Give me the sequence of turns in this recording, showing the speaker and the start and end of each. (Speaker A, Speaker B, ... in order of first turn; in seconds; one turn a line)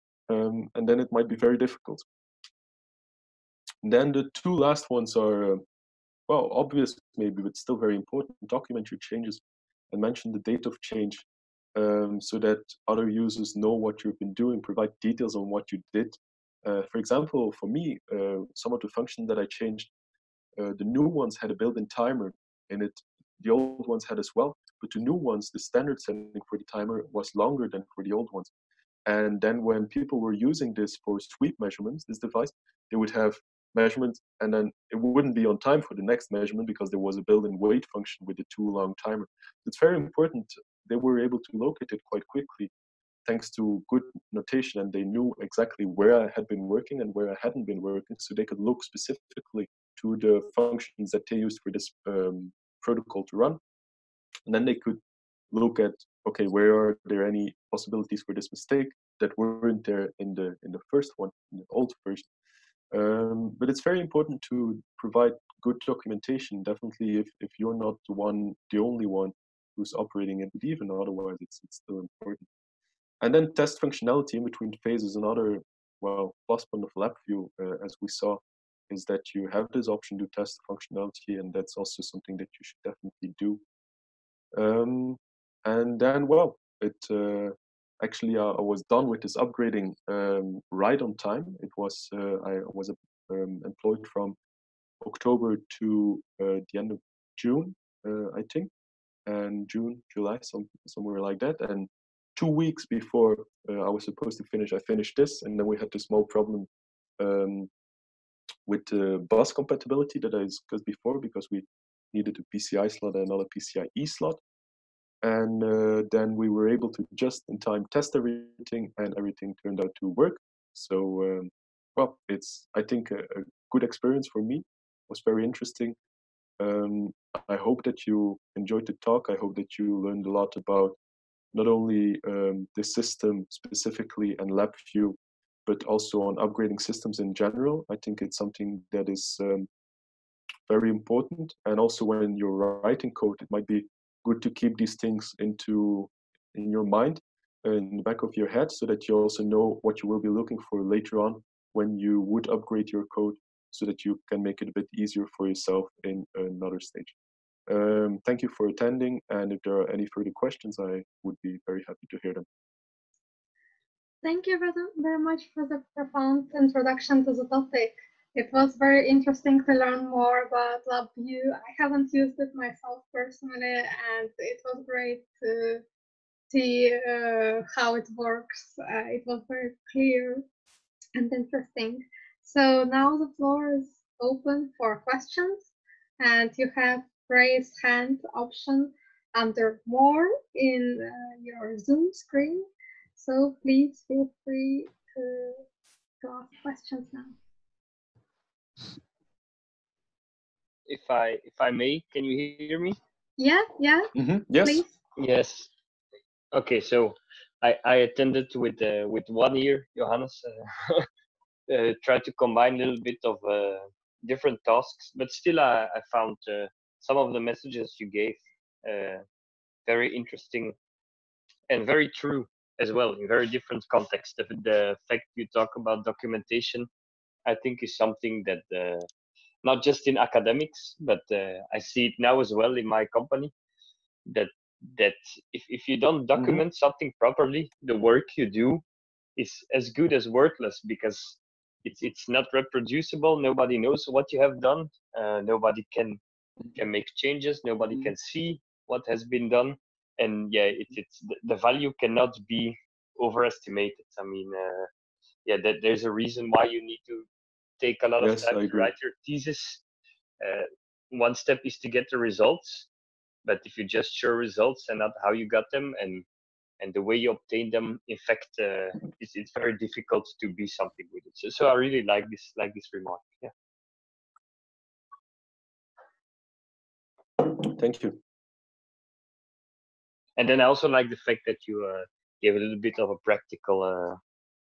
Speaker A: 0.3-2.0
Speaker A: 3.8-5.6
Speaker A: 6.3-19.9
Speaker A: 20.6-28.5
Speaker A: 29.1-42.7
Speaker A: 43.2-53.6
Speaker A: 54.5-55.0
Speaker A: 55.5-62.3
Speaker A: 62.9-72.4
Speaker A: 73.2-83.6
Speaker A: 84.5-94.3
Speaker A: 95.0-98.7
Speaker A: 99.2-106.7
Speaker A: 107.2-107.7
Speaker A: 108.7-114.4
Speaker A: 115.2-126.0
Speaker A: 126.6-131.0
Speaker A: 131.5-139.7
Speaker A: 140.7-157.1
Speaker A: 157.7-162.4
Speaker B: 164.2-175.8
Speaker B: 176.5-180.4
Speaker B: 181.1-185.7
Speaker B: 186.2-195.6
Speaker B: 196.2-197.3
Speaker C: 200.9-203.0
Speaker B: 203.4-204.9
Speaker A: 204.1-204.8
Speaker C: 205.2-205.7
Speaker C: 206.5-211.1
Speaker C: 211.7-219.2
Speaker C: 219.8-220.8
Speaker C: 221.7-226.9
Speaker C: 227.4-229.1
Speaker C: 229.6-233.5
Speaker C: 234.3-238.8
Speaker A: 236.3-236.6
Speaker C: 239.3-246.2
Speaker C: 246.7-254.9
Speaker C: 255.4-257.3
Speaker C: 257.8-259.8
Speaker A: 258.2-258.9
Speaker C: 260.4-262.9
Speaker C: 263.4-266.2
Speaker C: 266.8-273.5
Speaker A: 277.4-278.2
Speaker C: 280.4-284.2